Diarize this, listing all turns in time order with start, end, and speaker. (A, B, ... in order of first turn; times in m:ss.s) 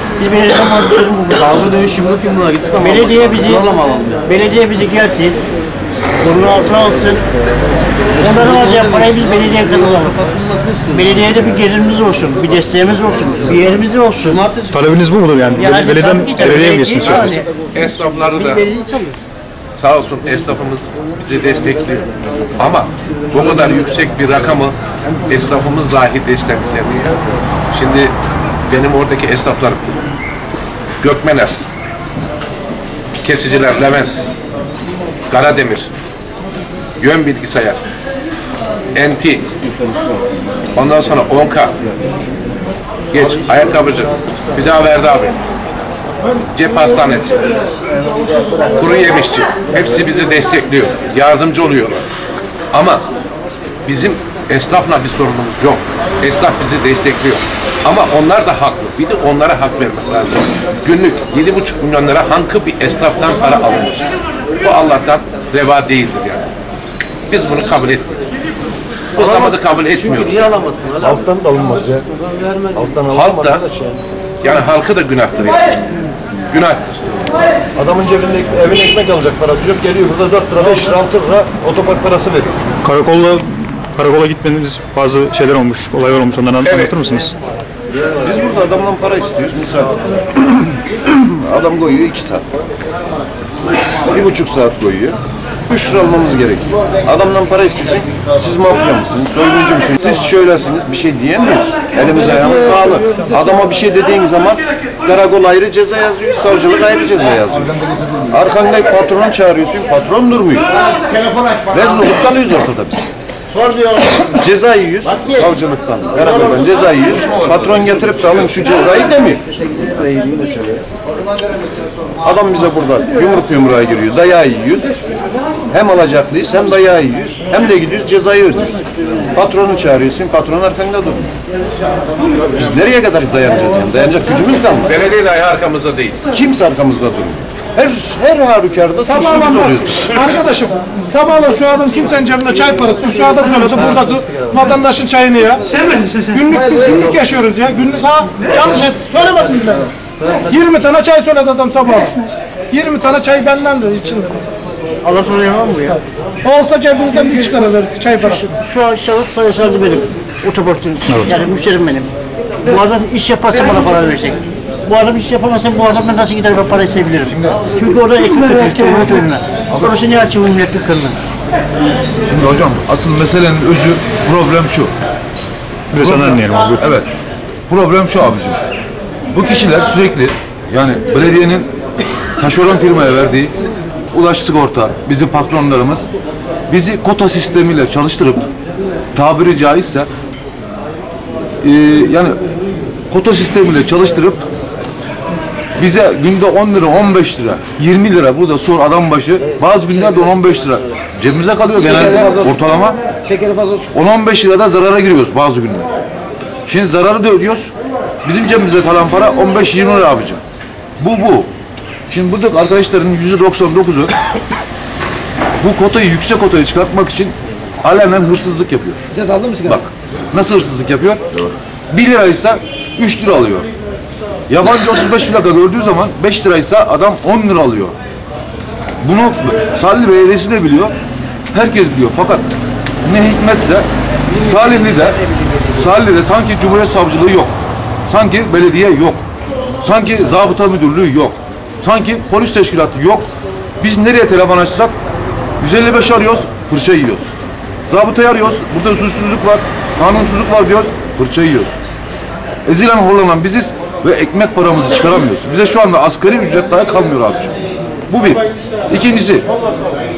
0:00.2-0:02.2 A
0:01.9-0:02.7 B
0:02.8-0:05.4 A
0:03.8-0:04.1 B
0:06.2-0:07.2 A
0:08.2-0:10.3 A
0:10.9-0:14.5 A
0:14.7-0:17.4 C
0:15.6-0:17.5 A
0:17.7-0:18.6 D
0:18.3-0:19.3 A
0:19.7-0:24.8 D
0:25.3-0:27.2 D
0:27.7-0:28.1 D
0:28.7-0:30.0 D
0:31.0-0:31.6 D
0:33.2-0:34.1 D
0:35.3-0:35.9 D
0:37.0-0:37.8 D
0:38.9-0:39.5 D
0:40.7-0:41.7 D
0:43.1-0:45.4 D
0:46.5-0:47.6 D
0:48.7-0:52.0 D
0:52.7-0:53.0 D
0:53.8-1:04.1 D
1:04.6-1:06.4 D
1:07.3-1:08.2 D
1:09.1-1:10.5 D
1:09.2-1:12.0 E
1:12.7-1:13.8 E
1:13.1-1:13.6 D
1:14.4-1:15.8 D
1:16.5-1:17.0 D
1:17.8-1:22.5 E
1:22.8-1:27.3 C
1:26.6-1:26.9 D
1:28.2-1:30.5 E
1:31.2-1:32.5 E
1:34.1-1:50.7 E
1:51.6-1:53.1 E
1:54.3-1:59.4 E
1:59.8-2:00.6 B
2:02.2-2:05.0 E
2:05.7-2:11.2 E
2:12.5-2:14.9 E
2:14.8-2:16.2 D
2:16.3-2:20.1 E
2:19.0-2:29.9 F
2:30.4-2:32.2 F
2:32.7-2:34.5 F
2:35.0-2:36.0 A
2:35.9-2:38.6 F
2:38.2-2:42.1 A
2:42.6-2:51.2 A
2:47.3-2:47.6 G
2:52.2-2:54.9 G
2:55.9-2:56.8 C
2:56.0-2:57.1 G
2:57.7-2:58.6 G
2:59.3-3:01.7 G
3:02.4-3:03.5 G
3:04.1-3:06.1 G
3:06.7-3:08.4 G
3:09.1-3:10.1 G
3:11.6-3:12.4 G
3:13.1-3:14.5 G
3:15.8-3:23.0 G
3:23.9-3:25.9 G
3:26.6-3:27.7 G
3:28.2-3:30.4 G
3:31.0-3:31.5 G
3:32.1-3:34.1 G
3:35.6-3:39.0 G
3:39.6-3:41.2 G
3:41.9-3:43.7 G
3:44.5-3:47.9 G
3:49.0-3:50.9 G
3:51.5-3:52.5 G
3:53.0-3:55.2 G
3:55.7-3:57.5 G
3:58.1-3:59.2 G
3:59.8-4:03.3 G
4:03.8-4:05.0 G
4:05.6-4:07.3 G
4:07.9-4:11.7 G
4:12.6-4:17.5 G
4:18.1-4:19.4 G